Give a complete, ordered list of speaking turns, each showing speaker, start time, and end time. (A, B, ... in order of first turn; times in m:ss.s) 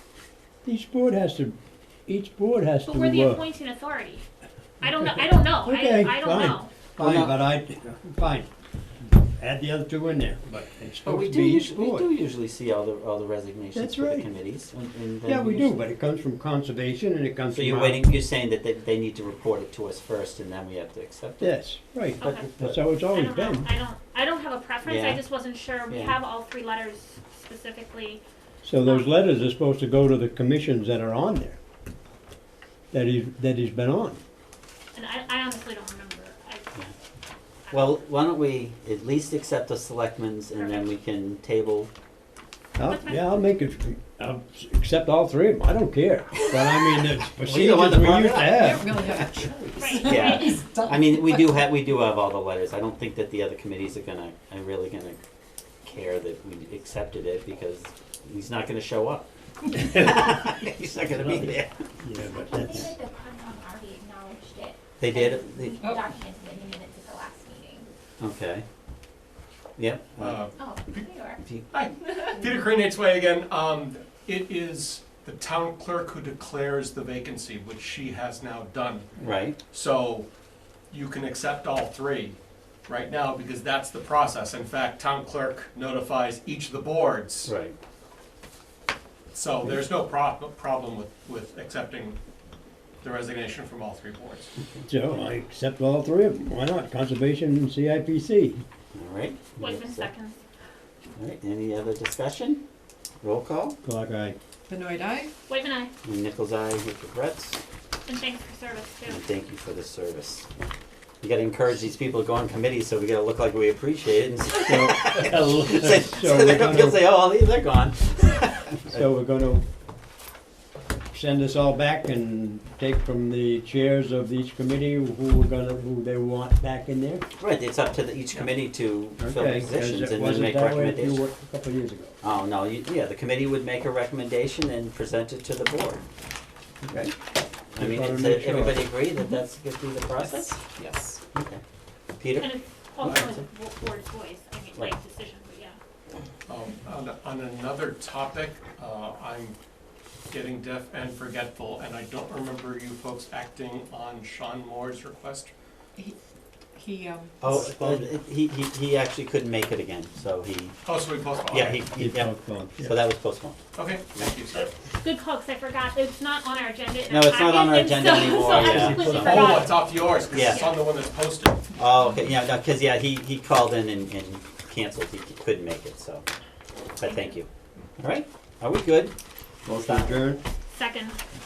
0:00.6-0:01.6 A
0:02.1-0:03.4 A
0:02.8-0:04.2 B
0:04.8-0:06.7 B
0:05.2-0:08.5 A
0:07.0-0:07.4 C
0:09.0-0:12.1 A
0:11.0-0:15.7 C
0:13.7-0:14.3 A
0:15.2-0:18.0 A
0:17.5-0:21.5 C
0:21.4-0:23.7 A
0:22.2-0:22.5 B
0:22.2-0:22.8 C
0:23.1-0:28.2 B
0:24.8-0:25.2 C
0:25.9-0:26.2 C
0:28.6-0:31.6 A
0:28.8-0:29.1 B
0:32.9-0:34.2 A
0:34.9-0:36.8 B
0:37.7-0:38.0 B
0:37.7-0:41.9 C
0:40.6-0:40.9 B
0:42.8-0:48.9 A
0:42.9-0:43.3 B
0:47.4-0:48.7 C
0:48.3-0:51.6 D
0:49.8-0:50.6 B
0:50.0-0:55.2 C
0:55.8-1:02.0 C
1:01.0-1:02.9 A
1:02.2-1:07.9 E
1:05.0-1:05.8 C
1:08.2-1:08.6 C
1:09.8-1:10.4 C
1:10.2-1:11.0 F
1:10.5-1:11.5 E
1:11.7-1:19.1 F
1:19.2-1:19.6 C
1:19.6-1:20.3 F
1:20.9-1:27.5 F
1:27.4-1:27.7 C
1:29.3-1:32.2 F
1:33.0-1:34.5 F
1:34.8-1:38.6 A
1:38.9-1:40.1 C
1:39.6-1:40.4 B
1:41.2-1:42.6 C
1:43.2-1:43.8 C
1:43.8-1:44.4 A
1:44.7-1:45.3 D
1:45.5-1:45.9 B
1:46.0-1:47.6 C
1:48.1-1:49.2 B
1:49.1-1:50.5 C
1:51.2-1:59.0 C
1:54.6-1:57.0 A
1:58.9-1:59.6 A
2:01.1-2:07.2 A
2:07.4-2:11.2 C
2:09.2-2:12.2 A
2:12.2-2:16.0 C
2:16.8-2:17.1 A
2:17.7-2:20.6 C
2:17.8-2:18.9 A
2:20.2-2:21.2 D
2:21.3-2:21.6 C
2:22.2-2:22.5 C
2:22.4-2:25.8 B
2:23.0-2:23.4 C
2:26.5-2:29.6 F
2:30.3-2:35.5 F
2:36.8-2:37.5 D
2:37.4-2:40.7 C
2:37.4-2:38.0 F
2:40.8-2:41.8 F
2:41.5-2:43.6 C
2:42.0-2:43.0 A
2:43.7-2:44.7 F
2:44.9-2:49.8 B
2:47.1-2:49.2 C
2:48.4-2:49.7 A
2:49.0-2:51.7 F
2:50.3-2:50.7 C
2:50.5-2:50.8 B
2:51.8-2:56.2 C
2:57.0-2:57.5 C
2:58.0-2:59.1 C
2:59.6-3:00.2 C
2:59.6-3:00.4 A
3:00.7-3:01.2 B